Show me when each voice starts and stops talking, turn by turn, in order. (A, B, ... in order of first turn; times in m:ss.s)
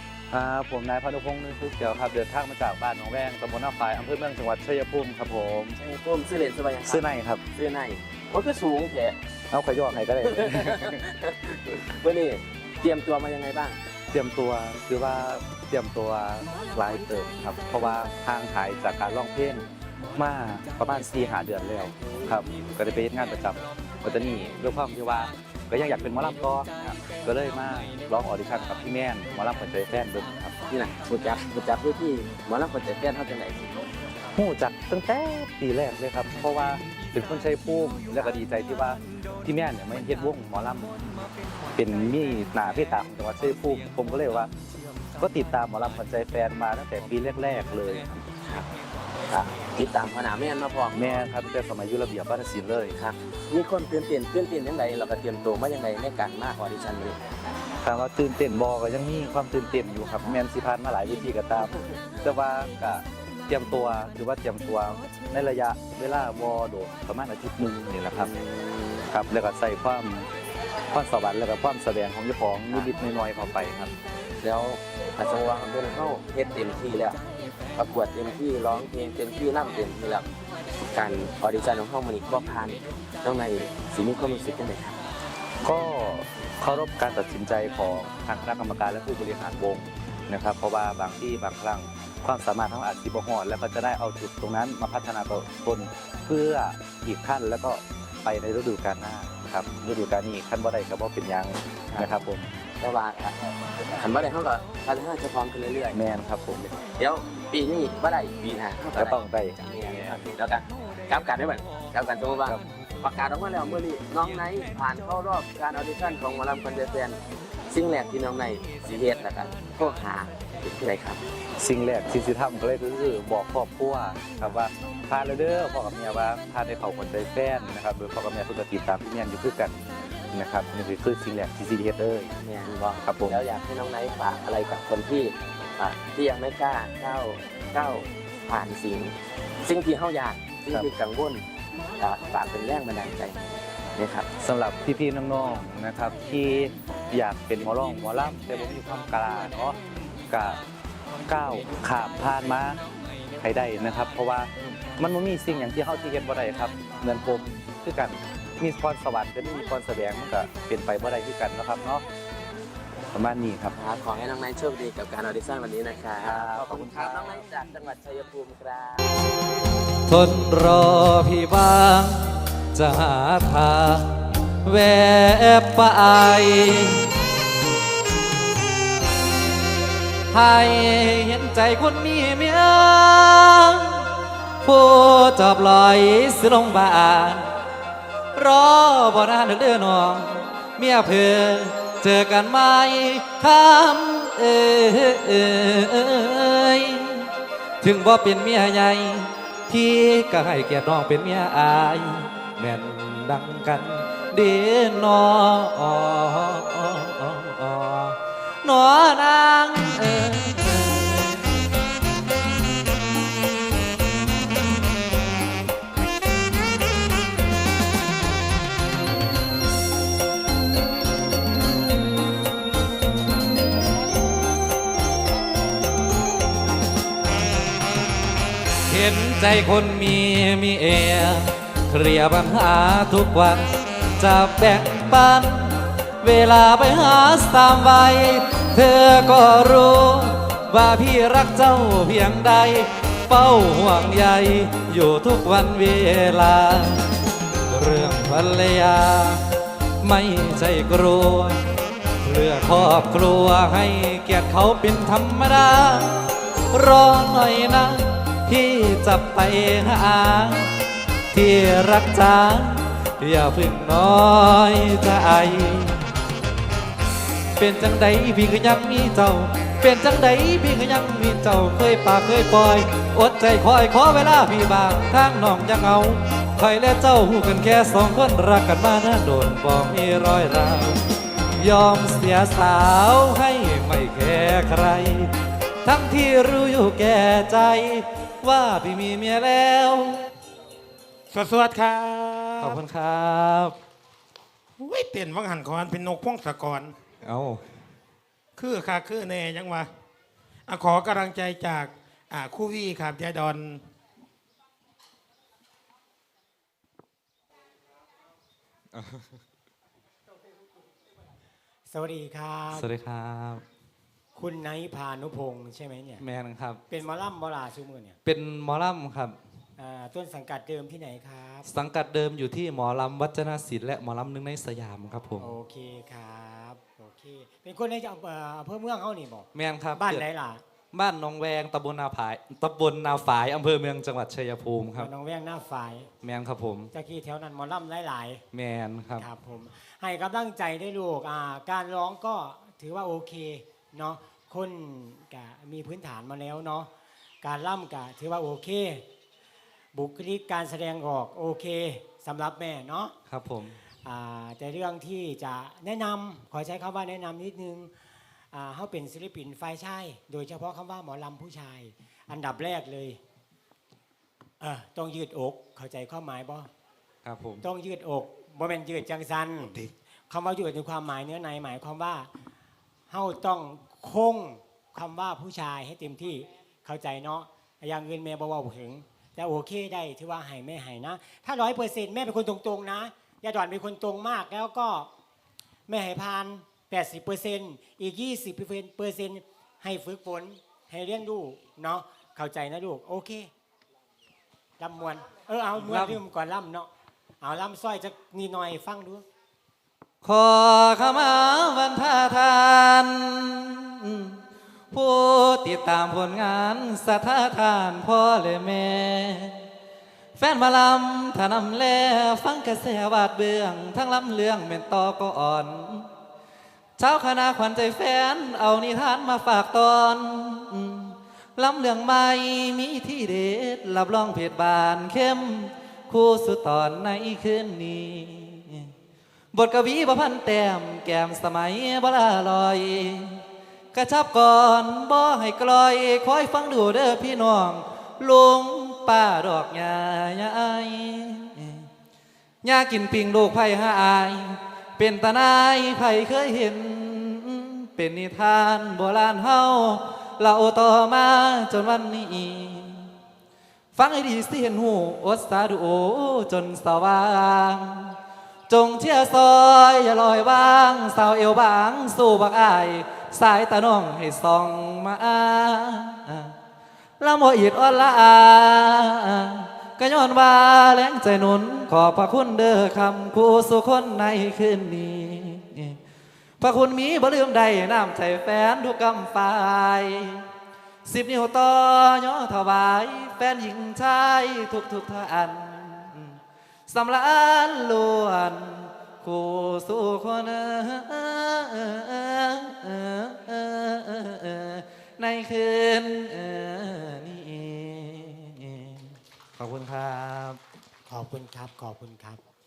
0:00.3-0:05.8 A
0:05.8-0:09.2 B
0:06.8-0:07.4 A
0:09.5-0:11.0 A
0:10.2-0:13.8 B
0:14.1-0:30.6 A
0:30.7-0:33.9 B
0:34.4-0:41.0 A
0:41.8-0:44.5 A
0:45.2-0:48.2 A
0:49.3-0:51.2 B
0:50.9-0:53.0 A
0:53.0-0:57.2 B
0:57.8-1:08.3 A
1:08.2-1:09.1 B
1:09.1-1:10.3 A
1:10.9-1:13.9 A
1:14.4-1:17.2 B
1:17.8-1:20.3 B
1:20.9-1:25.0 B
1:25.6-1:42.5 A
1:42.8-1:46.0 B
1:45.9-1:46.7 A
1:46.8-1:57.2 B
1:48.9-1:49.6 A
1:57.7-2:01.2 B
2:01.6-2:12.3 A
2:12.4-2:21.4 B
2:13.0-2:13.4 A
2:22.0-2:24.3 B
2:24.4-2:29.8 A
2:30.3-2:30.6 A
2:31.3-2:32.8 A
2:33.4-2:42.0 A
2:43.1-2:43.8 A
2:43.7-2:49.3 B
2:46.2-2:47.4 A
2:50.1-2:57.1 C
3:00.3-3:04.1 C
3:04.6-3:07.4 C
3:08.4-3:17.3 C
3:17.8-3:31.5 C
3:48.9-4:07.1 C
4:07.7-4:09.4 C
4:10.0-4:11.6 C
4:12.2-4:16.2 C
4:16.7-4:20.7 C
4:21.3-4:26.0 C
4:27.6-4:41.0 C
4:41.6-4:45.3 C
4:45.8-4:50.3 C
4:51.3-4:52.8 D
4:52.6-4:53.8 C
4:54.8-4:57.0 D
4:57.2-4:57.6 C
4:58.6-4:59.9 D
5:00.7-5:03.9 D
5:08.9-5:09.3 C
5:11.9-5:12.9 E
5:12.7-5:13.6 C
5:14.4-5:16.2 E
5:16.2-5:16.8 C
5:16.9-5:18.2 E
5:18.2-5:19.4 C
5:19.8-5:21.7 E
5:21.7-5:25.6 C
5:25.4-5:30.6 E
5:29.5-5:30.2 C
5:30.9-5:35.1 C
5:35.0-5:36.1 E
5:36.2-5:36.9 C
5:36.9-5:38.4 E
5:38.5-5:39.3 C
5:39.2-5:46.9 E
5:47.4-5:49.1 E
5:49.9-5:53.2 E
5:53.3-5:53.8 C
5:54.0-5:57.9 E
5:58.5-6:03.2 E
6:04.6-6:06.7 E
6:07.2-6:07.6 C
6:07.6-6:12.3 E
6:13.1-6:25.1 E
6:25.9-6:33.5 E
6:34.8-6:36.9 E
6:35.8-6:36.2 C
6:37.4-6:39.2 E
6:40.2-6:44.4 C
6:44.9-6:49.7 C
6:50.4-6:56.1 C
6:57.0-7:08.9 C
7:09.5-7:13.4 C
7:13.9-7:21.9 C
7:22.6-7:33.1 C
7:33.9-7:38.2 C
7:38.7-7:46.6 C
7:47.2-7:56.0 C
7:56.6-8:00.5 C
8:01.0-8:20.6 C
8:21.1-8:22.4 E